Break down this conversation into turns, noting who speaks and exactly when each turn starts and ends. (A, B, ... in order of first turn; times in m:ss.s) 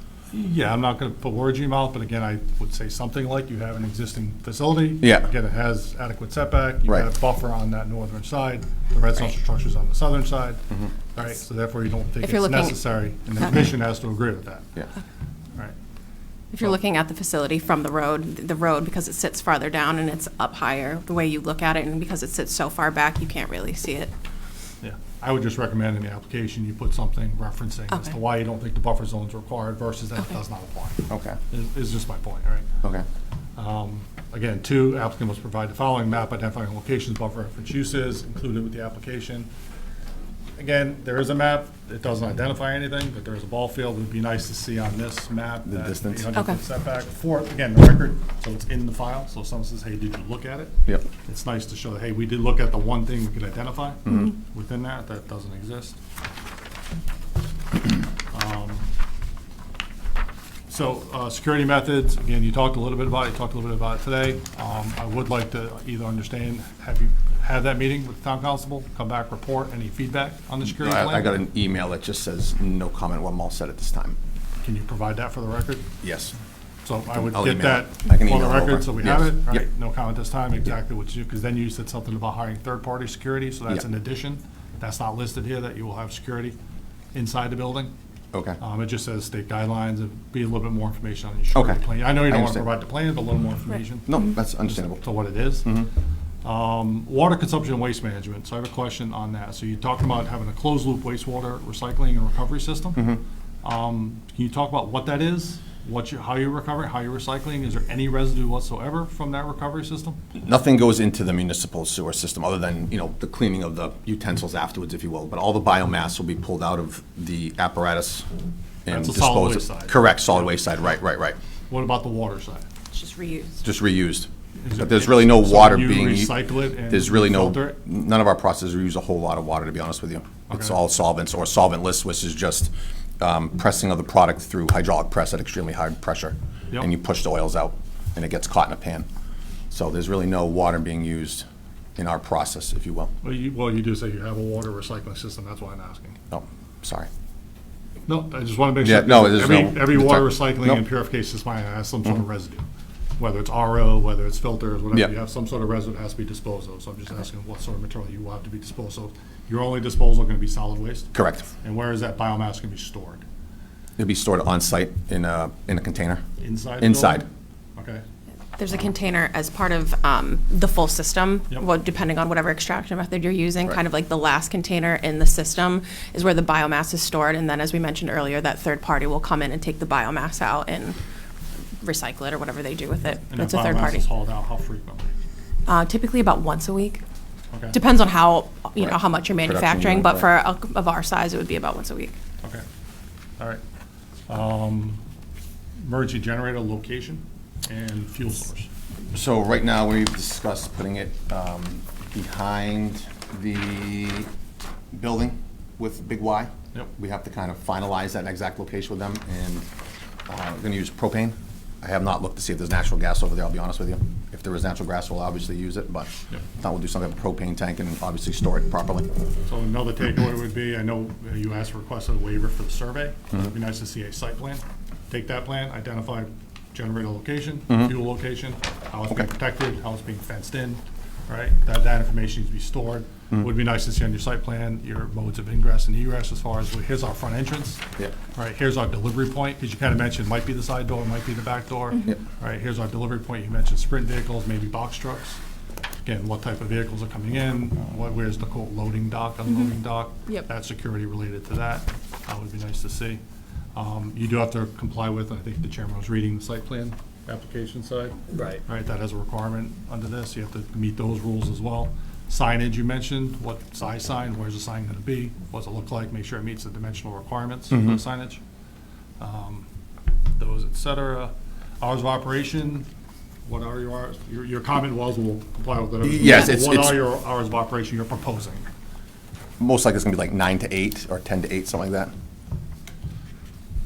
0:00.3-0:10.6 A
0:05.0-0:05.3 B
0:11.1-0:14.7 A
0:12.2-0:12.8 C
0:16.5-0:24.1 C
0:24.8-0:32.7 A
0:31.1-0:31.4 B
0:33.6-0:39.5 A
0:40.6-0:56.0 A
0:45.6-0:46.3 B
0:58.3-0:58.9 A
1:00.7-1:11.4 A
1:10.6-1:14.2 B
1:14.6-1:15.9 A
1:16.0-1:16.4 B
1:16.8-1:26.6 A
1:17.3-1:19.6 B
1:27.1-1:27.9 A
1:28.3-1:28.6 B
1:28.6-1:35.7 A
1:31.5-1:32.6 B
1:34.1-1:35.0 B
1:35.6-1:35.9 B
1:36.4-1:43.0 A
1:43.0-1:43.2 B
1:43.6-1:50.2 A
1:50.3-1:58.3 B
1:58.8-2:01.4 B
1:58.9-2:00.5 A
2:01.7-2:02.6 A
2:02.9-2:03.6 C
2:03.6-2:19.1 B
2:04.6-2:07.8 A
2:10.5-2:10.8 A
2:19.7-2:23.1 B
2:23.2-2:26.2 A
2:26.3-2:27.1 B
2:28.0-2:32.6 A
2:28.8-2:30.8 B
2:33.2-2:43.2 A
2:41.1-2:41.5 B
2:44.0-2:46.2 B
2:46.4-2:48.0 A
2:46.8-2:47.2 B
2:48.6-3:01.0 C
3:01.8-3:04.0 C
3:03.3-3:05.1 A
3:05.6-3:07.0 C
3:07.5-3:07.8 A
3:07.7-3:12.1 C
3:08.8-3:10.3 B
3:14.3-3:15.0 A
3:15.8-3:18.7 A
3:19.1-3:24.3 B
3:24.9-3:29.7 B
3:30.3-3:39.1 B
3:39.4-3:57.8 A
3:58.3-4:05.4 A
4:06.0-4:13.2 A
4:13.7-4:28.4 A
4:29.2-4:29.6 A
4:30.4-4:32.9 A
4:33.4-4:38.7 A
4:36.0-4:37.0 B
4:39.6-4:42.1 B